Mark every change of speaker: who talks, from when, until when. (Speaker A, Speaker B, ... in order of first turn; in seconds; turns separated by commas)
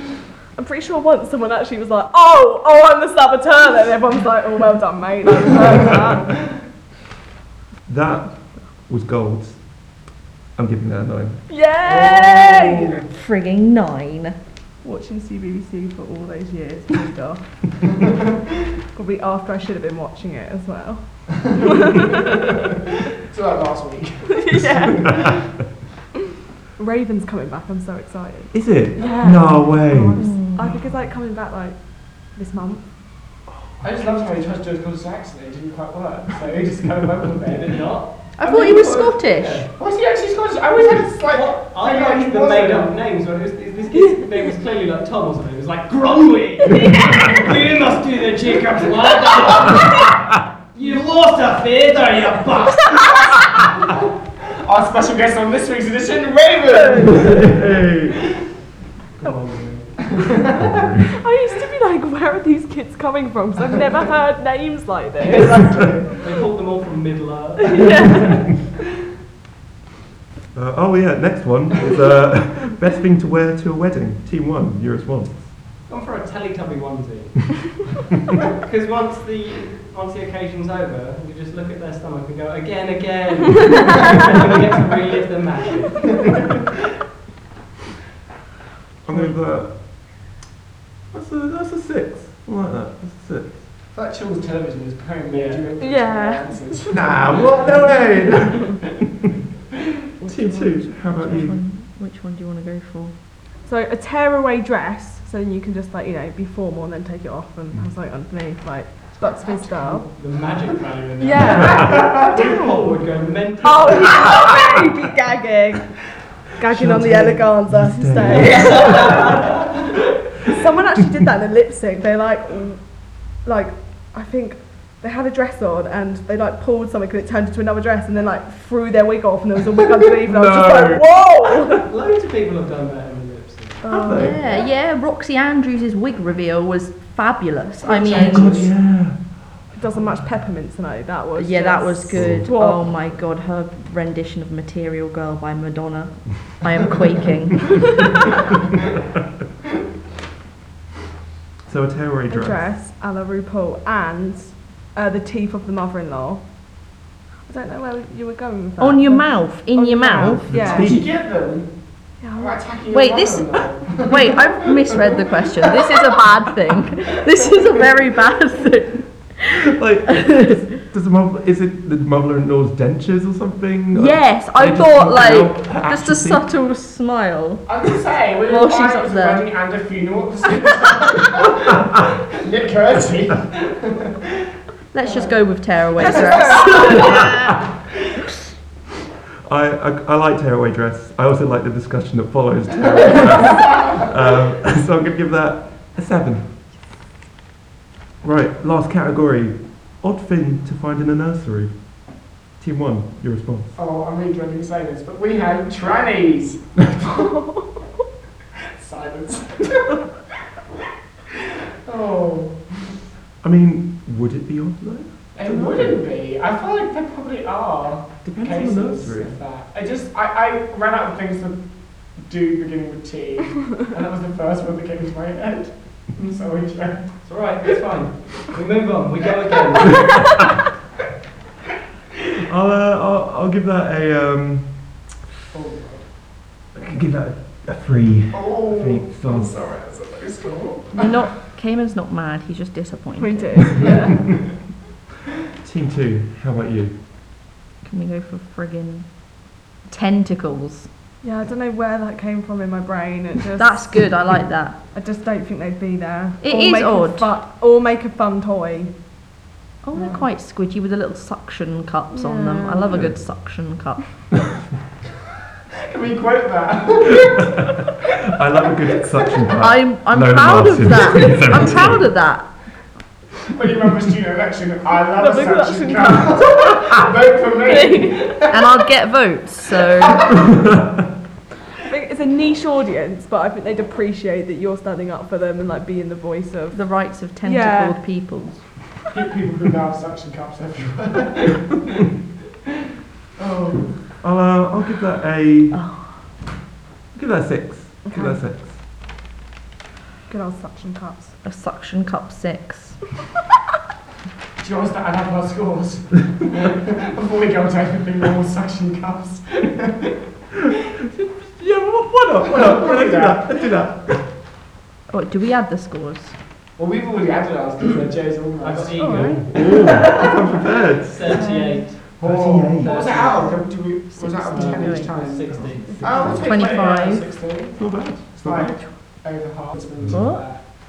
Speaker A: 0.6-6.3, Speaker B: 7.9-9.6, Speaker B: 10.6-11.4, Speaker A: 11.5-12.9, Speaker C: 11.8-13.0, Speaker D: 13.0-14.4, Speaker A: 14.8-17.4, Speaker A: 18.9-21.2, Speaker C: 21.4-22.1, Speaker A: 21.7-22.1, Speaker C: 23.2-25.4, Speaker A: 24.4-25.3, Speaker A: 26.8-31.8, Speaker B: 28.5-30.2, Speaker D: 30.1-30.7, Speaker A: 32.3-32.8, Speaker C: 33.8-37.8, Speaker E: 37.5-38.1, Speaker D: 38.4-39.7, Speaker C: 38.4-42.9, Speaker E: 41.2-50.1, Speaker E: 50.7-52.9, Speaker C: 52.9-53.4, Speaker C: 54.6-57.6, Speaker B: 57.0-58.2, Speaker E: 59.2-60.0, Speaker C: 60.0-60.9, Speaker A: 61.1-66.1, Speaker C: 65.2-66.2, Speaker E: 66.2-68.5, Speaker A: 67.6-68.3, Speaker B: 70.5-75.6, Speaker E: 75.9-77.5, Speaker E: 78.6-86.1, Speaker C: 86.0-86.4, Speaker B: 89.0-89.8, Speaker B: 91.1-93.6, Speaker C: 93.9-98.7, Speaker E: 95.3-95.7, Speaker A: 95.8-96.9, Speaker B: 96.9-98.8, Speaker D: 100.2-103.1, Speaker B: 100.2-101.6, Speaker A: 103.6-110.0, Speaker E: 109.8-114.1, Speaker A: 111.2-112.5, Speaker C: 111.2-112.9, Speaker A: 113.6-115.8, Speaker A: 116.6-119.1, Speaker B: 116.6-119.3, Speaker E: 118.5-119.6, Speaker A: 120.5-122.8, Speaker A: 123.4-131.7, Speaker B: 130.2-131.1, Speaker E: 131.9-133.8, Speaker B: 133.9-134.4, Speaker D: 133.9-138.7, Speaker C: 137.9-138.5, Speaker B: 138.0-139.2, Speaker A: 139.8-142.9, Speaker B: 139.8-140.4, Speaker D: 141.3-147.9, Speaker B: 142.1-142.5, Speaker B: 151.7-152.7, Speaker A: 152.3-156.4, Speaker A: 157.4-160.9, Speaker D: 158.8-160.6, Speaker B: 160.5-161.1, Speaker C: 160.5-161.7, Speaker A: 162.2-162.8, Speaker C: 162.4-165.1, Speaker D: 162.9-170.6, Speaker C: 165.7-165.9, Speaker B: 169.5-176.4, Speaker D: 173.9-179.5, Speaker C: 177.7-184.1, Speaker D: 184.9-187.3, Speaker C: 185.0-185.4, Speaker B: 186.9-187.3, Speaker B: 189.4-196.5, Speaker C: 193.6-194.0, Speaker B: 198.2-201.7, Speaker B: 202.6-203.8, Speaker C: 203.7-207.1, Speaker C: 208.8-209.9, Speaker C: 211.8-212.6, Speaker B: 213.4-216.0, Speaker C: 215.3-227.1, Speaker B: 218.2-219.4, Speaker E: 227.2-230.1, Speaker B: 232.5-234.8, Speaker C: 235.5-236.1, Speaker B: 236.7-239.7, Speaker C: 238.3-241.1, Speaker D: 240.9-243.9, Speaker A: 243.2-244.2, Speaker B: 245.6-247.0, Speaker D: 247.8-249.2, Speaker D: 249.9-250.9, Speaker A: 251.2-254.2, Speaker D: 253.6-254.8, Speaker A: 254.9-258.9, Speaker D: 256.4-257.3, Speaker D: 259.8-264.1, Speaker A: 259.9-260.2, Speaker A: 262.1-263.0, Speaker C: 265.9-267.6, Speaker B: 267.3-267.6, Speaker B: 268.2-272.1, Speaker D: 269.5-272.6, Speaker C: 273.5-278.7, Speaker A: 275.2-277.0, Speaker A: 277.6-278.1, Speaker D: 278.5-280.4, Speaker A: 281.9-288.0, Speaker D: 286.7-288.6, Speaker C: 289.1-291.7, Speaker C: 293.4-293.9, Speaker B: 294.2-295.8, Speaker D: 295.7-296.2, Speaker B: 297.1-298.8, Speaker A: 298.0-298.4, Speaker A: 300.3-301.4, Speaker D: 301.4-303.0, Speaker C: 304.6-310.1, Speaker B: 311.1-314.2, Speaker C: 312.4-313.5, Speaker D: 315.1-316.3, Speaker C: 316.8-320.3, Speaker E: 318.6-319.6, Speaker A: 319.0-319.4, Speaker B: 319.4-321.3, Speaker E: 321.1-323.6, Speaker A: 321.3-321.8, Speaker C: 322.1-330.7, Speaker B: 322.2-323.0, Speaker D: 324.0-325.3, Speaker E: 324.5-326.0, Speaker B: 325.5-326.8, Speaker A: 325.8-326.1, Speaker D: 326.1-327.4, Speaker B: 327.7-328.8, Speaker D: 328.7-329.0, Speaker B: 330.0-330.2, Speaker D: 330.1-330.5